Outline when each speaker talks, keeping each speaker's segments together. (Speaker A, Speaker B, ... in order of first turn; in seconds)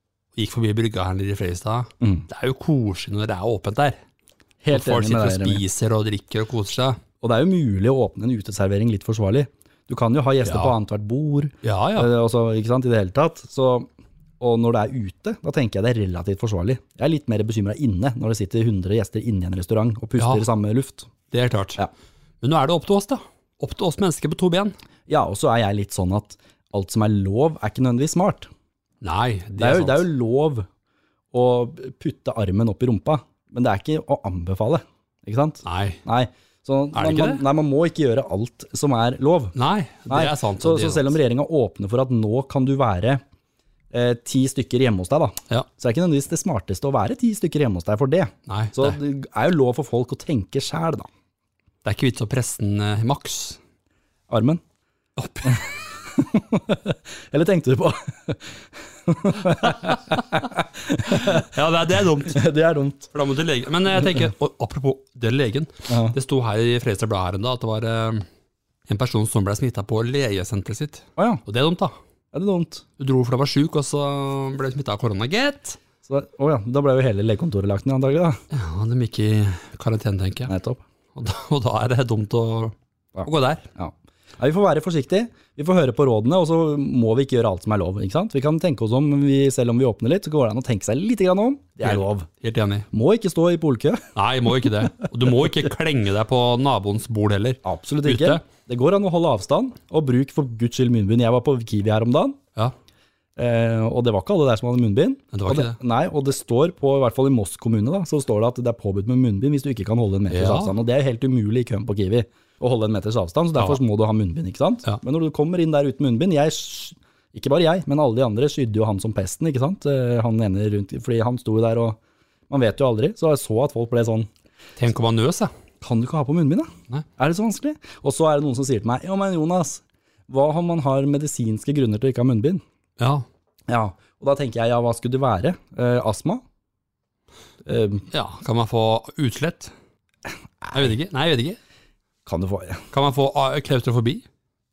Speaker A: 0.4-4.0, 4.7-7.0, 10.4-10.8, 11.6-12.1, 20.2-20.5, 21.3-21.8, 22.4-24.8, 29.0-30.1, 35.6-36.0, 36.9-37.4, 39.5-41.2, 48.5-49.0, 51.8-53.6, 55.2-55.7, 59.6-60.2, 61.1-62.4, 63.1-68.2, 68.9-72.0, 73.0-75.8, 78.5-80.5, 81.2-83.7, 91.8-92.9, 94.2-98.4, 105.3-105.8, 110.3-110.7, 124.8-125.5, 133.0-133.2, 138.1-139.7, 140.7-141.6, 142.9-144.2
Speaker B: 4.6-5.6, 7.2-13.9, 14.4-21.1, 25.1-28.5, 29.6-30.7, 31.3-39.5, 40.1-43.2, 43.9-51.1, 54.3-54.6, 56.1-61.5, 62.2-63.1, 65.9-66.2, 71.2-71.4, 72.3-72.8, 76.1-78.4, 80.5-80.8, 83.2-92.3, 92.9-94.7, 97.6-102.4, 103.4-122.0, 122.5-124.3, 125.8-132.6, 133.7-136.4, 137.7-138.1, 140.6-140.9, 142.3-142.9